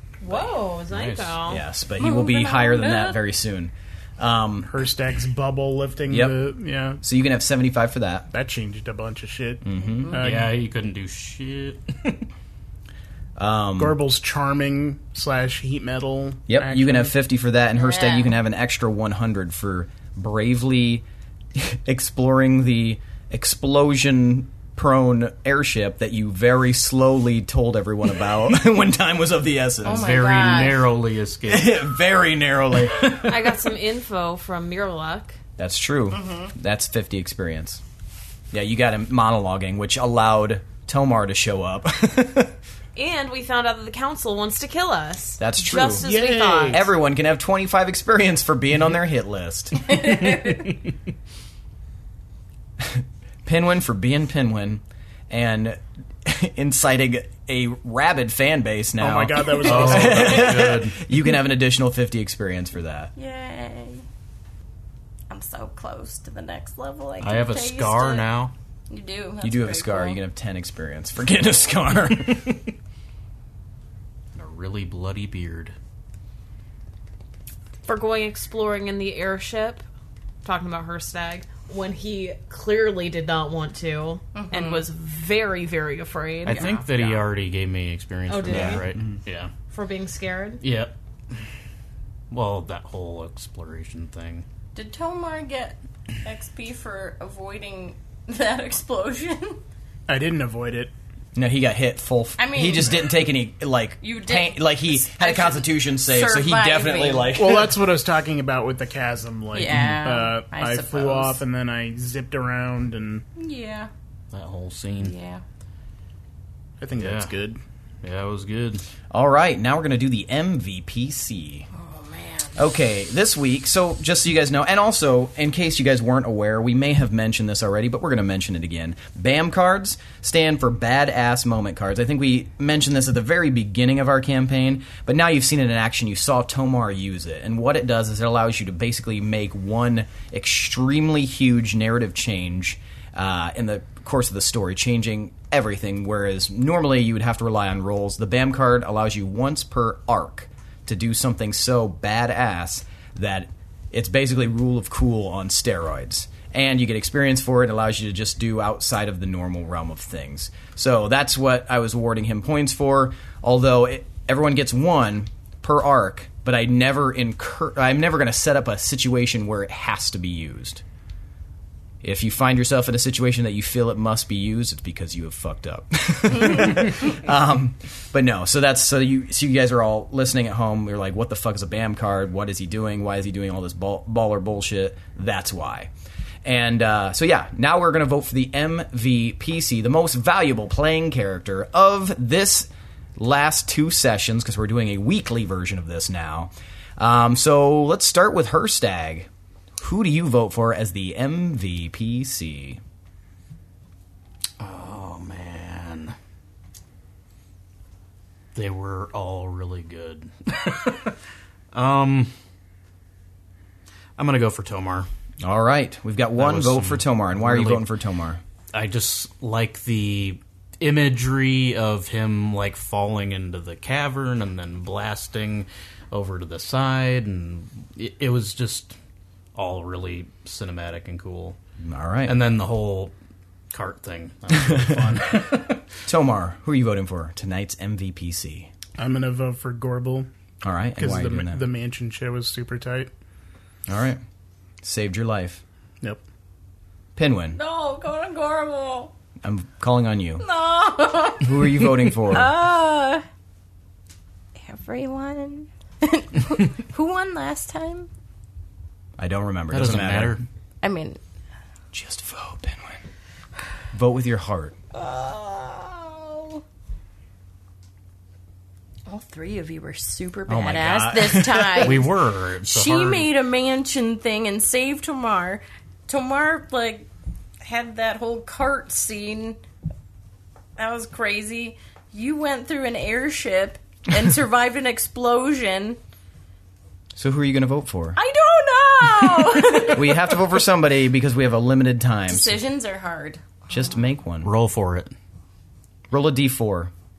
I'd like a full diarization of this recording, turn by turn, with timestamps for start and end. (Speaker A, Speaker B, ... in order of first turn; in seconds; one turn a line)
Speaker A: 0.2-1.6
Speaker B: 0.9-1.4
Speaker C: 1.4-4.7
Speaker D: 2.0-3.2
Speaker E: 4.6-7.0
Speaker C: 6.1-6.4
Speaker C: 7.0-8.3
Speaker E: 8.3-10.6
Speaker C: 9.6-10.2
Speaker D: 9.8-10.1
Speaker B: 10.2-12.2
Speaker C: 13.4-14.0
Speaker E: 13.8-17.1
Speaker C: 16.5-30.1
Speaker D: 17.8-18.3
Speaker D: 29.8-30.8
Speaker B: 29.9-31.9
Speaker C: 31.5-33.3
Speaker A: 33.1-35.4
Speaker C: 35.6-37.8
Speaker C: 38.5-42.5
Speaker A: 43.0-46.9
Speaker C: 45.4-46.0
Speaker E: 46.0-46.8
Speaker C: 46.7-50.1
Speaker D: 50.1-50.6
Speaker C: 52.8-63.1
Speaker E: 59.0-60.7
Speaker B: 59.6-61.0
Speaker D: 63.1-64.0
Speaker D: 65.3-68.2
Speaker B: 67.2-68.5
Speaker D: 68.9-70.2
Speaker C: 69.4-72.7
Speaker B: 74.3-75.7
Speaker A: 77.9-79.8
Speaker A: 80.4-87.2
Speaker D: 84.3-84.8
Speaker D: 86.5-86.8
Speaker B: 86.5-89.5
Speaker A: 88.3-88.8
Speaker C: 88.5-88.9
Speaker A: 89.7-90.6
Speaker B: 90.6-91.0
Speaker B: 92.3-94.4
Speaker D: 94.7-99.6
Speaker E: 100.1-100.9
Speaker C: 101.3-107.8
Speaker D: 102.4-103.1
Speaker D: 104.0-107.4
Speaker E: 107.3-113.2
Speaker D: 109.5-111.4
Speaker D: 113.3-113.9
Speaker B: 114.3-115.2
Speaker D: 115.0-115.4
Speaker E: 116.8-117.6
Speaker B: 117.0-117.3
Speaker B: 118.0-118.8
Speaker C: 119.1-121.7
Speaker D: 121.7-122.6
Speaker C: 122.5-170.8
Speaker C: 172.0-185.9
Speaker C: 186.4-199.3
Speaker C: 199.8-202.8
Speaker B: 204.6-206.1
Speaker B: 208.5-211.2
Speaker B: 211.7-212.3
Speaker B: 214.2-215.1
Speaker C: 215.4-218.4
Speaker B: 216.4-217.9
Speaker B: 218.7-228.9
Speaker B: 229.5-231.6
Speaker C: 231.8-232.3
Speaker B: 232.2-233.1
Speaker B: 233.7-235.8
Speaker C: 234.6-235.0
Speaker C: 236.1-238.7
Speaker E: 239.0-240.3
Speaker C: 240.6-241.6
Speaker E: 241.0-243.1
Speaker C: 243.9-244.2
Speaker C: 244.8-245.6
Speaker C: 247.2-247.6
Speaker D: 247.5-249.1
Speaker C: 249.4-250.4
Speaker D: 250.4-253.2
Speaker C: 251.4-252.5
Speaker D: 254.6-258.1
Speaker C: 259.2-260.4
Speaker B: 259.7-260.4
Speaker D: 260.8-261.2
Speaker C: 261.9-263.0
Speaker C: 263.9-264.8
Speaker D: 264.9-266.6
Speaker D: 269.1-272.1
Speaker C: 270.5-272.0
Speaker B: 271.7-273.3
Speaker D: 272.6-277.1
Speaker D: 277.6-279.6
Speaker D: 280.8-286.0
Speaker C: 287.1-288.2
Speaker D: 288.1-290.4
Speaker C: 289.6-292.6
Speaker D: 292.3-293.9
Speaker C: 293.7-294.5
Speaker B: 294.4-295.1
Speaker C: 296.1-296.9